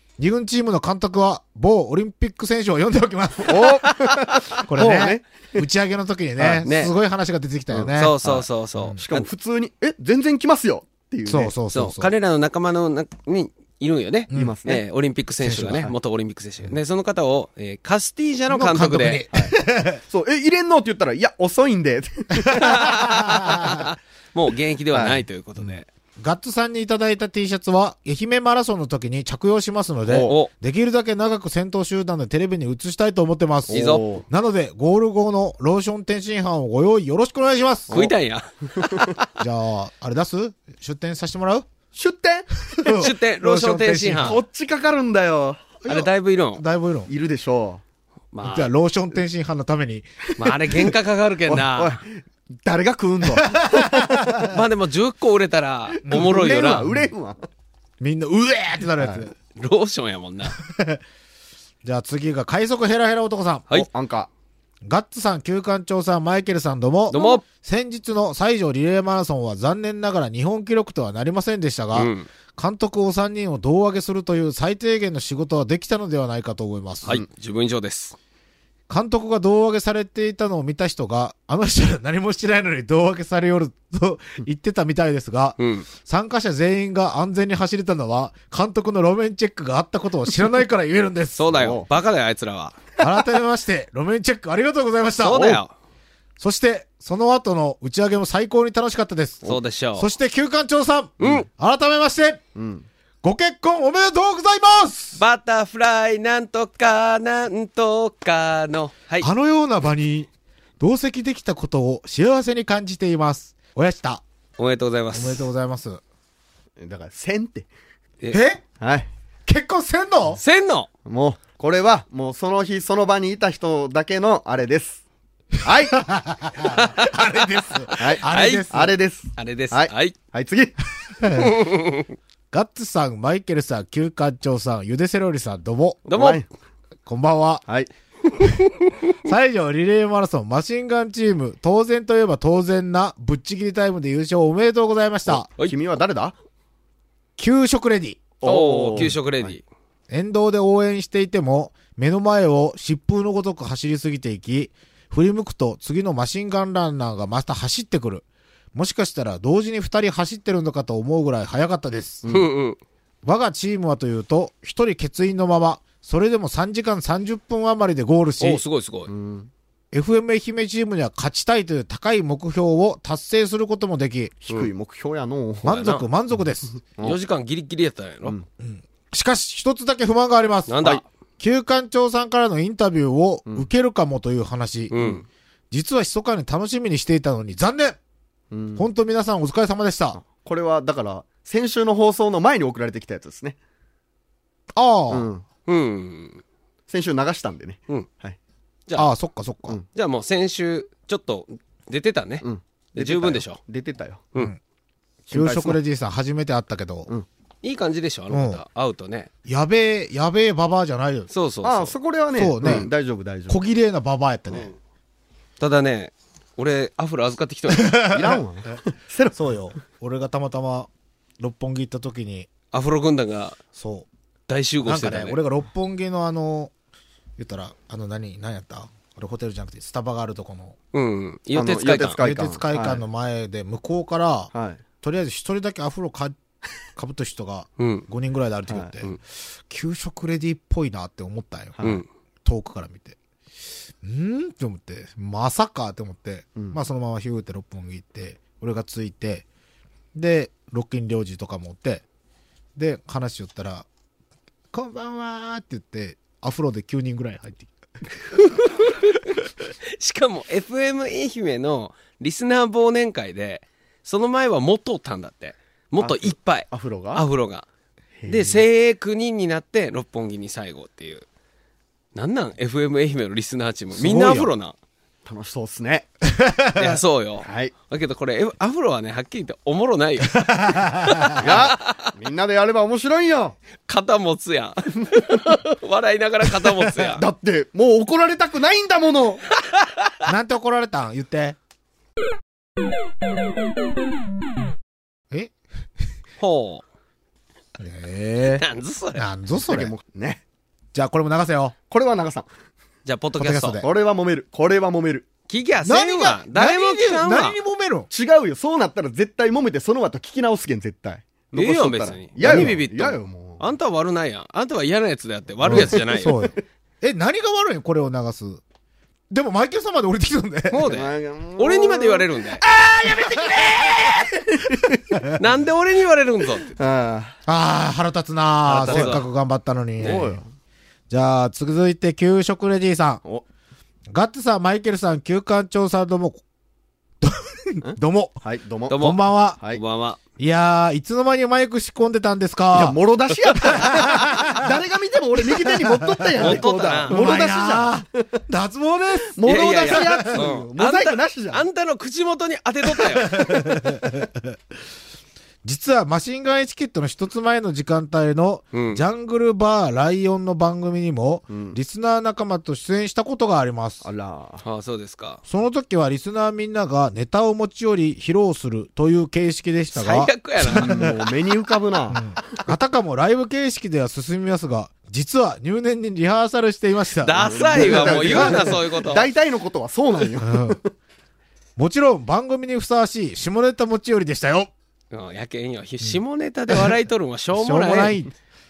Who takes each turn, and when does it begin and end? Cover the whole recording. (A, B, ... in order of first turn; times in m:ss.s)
0:00.2-0:04.1 A
0:03.4-0:05.6 B
0:04.6-0:08.1 A
0:06.6-0:06.9 C
0:07.7-0:08.4 B
0:07.9-0:09.3 C
0:09.0-0:11.5 B
0:11.2-0:12.1 A
0:11.7-0:19.2 C
0:14.3-0:14.6 A
0:14.3-0:14.8 B
0:15.4-0:15.9 A
0:18.5-0:20.0 A
0:19.3-0:19.6 B
0:20.1-0:23.1 B
0:22.5-0:23.8 A
0:22.6-0:25.9 C
0:24.9-0:25.2 B
0:26.2-0:38.1 A
0:30.1-0:30.3 B
0:30.2-0:30.5 C
0:33.7-0:34.0 C
0:33.7-0:34.2 B
0:37.9-0:39.2 C
0:38.8-0:39.1 B
0:39.4-0:41.7 A
0:41.9-0:42.9 B
0:42.7-0:44.4 A
0:42.9-0:44.4 C
0:44.2-0:45.7 B
0:45.8-0:47.1 A
0:45.9-0:46.6 C
0:47.1-0:47.8 B
0:48.3-0:48.7 C
0:48.4-0:50.0 A
0:50.4-0:52.0 C
0:51.5-0:54.5 B
0:53.2-0:54.2 A
0:54.5-0:56.9 C
0:56.0-0:57.4 B
0:56.1-0:57.1 A
0:58.0-0:59.3 A
0:59.0-0:59.2 B
0:59.6-1:00.6 C
1:00.6-1:01.0 A
1:01.8-1:03.7 A
1:03.7-1:04.3 B
1:04.8-1:17.2 A
1:07.1-1:07.4 C
1:11.9-1:12.3 C
1:17.0-1:18.2 C
1:18.9-1:31.6 A
1:25.6-1:25.9 C
1:31.4-1:32.8 C
1:31.5-1:31.9 B
1:33.0-1:35.6 A
1:35.2-1:35.7 C
1:36.4-1:42.4 A
1:39.4-1:40.1 C
1:41.2-1:41.4 C
1:42.6-1:42.9 B
1:43.2-1:45.2 A
1:45.2-1:49.3 C
1:49.2-1:50.3 A
1:50.8-1:54.2 A
1:54.6-1:55.4 C
1:55.1-1:56.0 A
1:56.8-1:57.7 B
1:58.3-1:58.6 A
1:58.8-1:59.1 B
1:59.4-2:00.4 A
2:00.4-2:00.9 C
2:01.0-2:05.0 B
2:05.6-2:06.0 B
2:05.9-2:08.9 A
2:06.7-2:07.1 C
2:07.9-2:08.7 C
2:08.0-2:10.8 B
2:09.4-2:10.2 C
2:11.2-2:11.6 A
2:11.4-2:12.0 C
2:12.5-2:16.0 A
2:16.1-2:16.4 C
2:16.1-2:16.4 B
2:17.0-2:17.6 A
2:19.2-2:25.5 A
2:25.3-2:25.8 C
2:25.6-2:26.3 B
2:27.4-2:28.2 A
2:28.4-2:29.6 B
2:28.4-2:29.6 C
2:30.1-2:42.2 A
2:42.3-2:42.8 C
2:43.2-2:48.6 A
2:48.4-2:49.1 C
2:49.1-2:49.5 B
2:49.9-2:54.3 A
2:54.4-2:55.8 B
2:55.6-2:56.8 A
2:55.7-2:56.0 C
2:57.0-2:58.4 C
2:58.6-3:04.9 A
3:00.7-3:01.0 C
3:04.9-3:05.2 C
3:05.7-3:08.0 A
3:08.5-3:08.8 B
3:08.8-3:10.2 A
3:10.2-3:13.6 B
3:14.7-3:15.3 A
3:15.1-3:15.4 B
3:15.7-3:16.4 C
3:16.9-3:18.4 B
3:18.9-3:19.8 A
3:19.9-3:23.6 C
3:22.4-3:24.2 B
3:25.3-3:25.8 B
3:25.3-3:27.1 A
3:27.6-3:29.3 C
3:28.3-3:28.6 A
3:29.4-3:31.3 A
3:31.3-3:31.9 C
3:31.6-3:33.6 B
3:32.4-3:32.9 A
3:33.5-3:34.7 A
3:35.6-3:38.2 C
3:38.1-3:39.4 B
3:39.3-3:40.9 A
3:41.4-3:42.5 A
3:42.7-3:43.6 C
3:43.8-3:44.1 A
3:44.5-3:45.4 C
3:44.8-3:46.7 A
3:47.4-3:50.8 A
3:50.9-3:52.2 C
3:51.5-3:53.0 B
3:52.1-3:54.5 A
3:54.5-3:54.8 B
3:55.0-3:56.4 A
3:57.0-4:01.8 A
3:57.8-3:58.1 C
4:01.8-4:02.0 B
4:02.4-4:03.2 A
4:04.0-4:09.4 A
4:10.1-4:12.0 A
4:12.8-4:13.9 A
4:14.7-4:17.7 A
4:20.0-4:27.6 C
4:26.0-4:27.2 B
4:28.2-4:28.6 B
4:28.3-4:31.2 C
4:32.1-4:34.7 C
4:33.9-4:34.5 A
4:35.2-4:36.1 B
4:36.3-4:37.0 A
4:36.8-4:42.0 C
4:37.4-4:37.7 B
4:40.4-4:41.4 A
4:41.4-4:43.6 B
4:43.9-4:47.2 C
4:47.1-4:49.4 B
4:50.2-4:51.6 A
4:56.4-4:56.8 C
4:57.8-4:59.9 A
4:58.5-4:59.2 C
4:59.7-5:00.4 B
5:00.9-5:01.7 A
5:01.9-5:02.5 B
5:03.0-5:03.8 C
5:03.4-5:03.9 A
5:03.8-5:05.3 B
5:05.5-5:07.6 C
5:05.8-5:08.1 A
5:08.1-5:13.6 B
5:11.5-5:16.4 C
5:12.4-5:12.8 A
5:15.6-5:18.6 A
5:15.7-5:16.5 B
5:19.3-5:20.9 A
5:20.7-5:22.6 C
5:20.8-5:25.2 B
5:23.1-5:23.9 A
5:25.4-5:26.7 C
5:26.8-5:27.4 B
5:27.5-5:30.4 A
5:28.7-5:29.2 C
5:28.8-5:29.2 B
5:30.0-5:30.2 C
5:30.0-5:30.5 B
5:31.1-5:33.2 A
5:34.1-5:36.4 A
5:37.2-5:38.4 A
5:37.8-5:39.0 B
5:38.9-5:40.2 C
5:38.9-5:39.6 A
5:40.4-5:43.0 A
5:42.7-5:48.1 B
5:43.7-5:44.6 A
5:45.7-5:50.5 A
5:46.4-5:47.5 C
5:49.4-5:51.6 B
5:49.4-5:53.6 C
5:53.1-5:54.4 A
5:55.6-6:04.1 A
5:58.7-5:59.0 C
6:01.5-6:01.8 B
6:04.0-6:04.6 B
6:04.6-6:05.4 C
6:05.4-6:11.1 A
6:09.9-6:11.2 C
6:10.7-6:12.4 B
6:12.1-6:18.8 A
6:17.2-6:19.3 C
6:17.4-6:20.9 B
6:20.4-6:20.8 A
6:21.8-6:24.7 A
6:25.1-6:28.1 C
6:26.0-6:27.0 A
6:27.5-6:28.3 A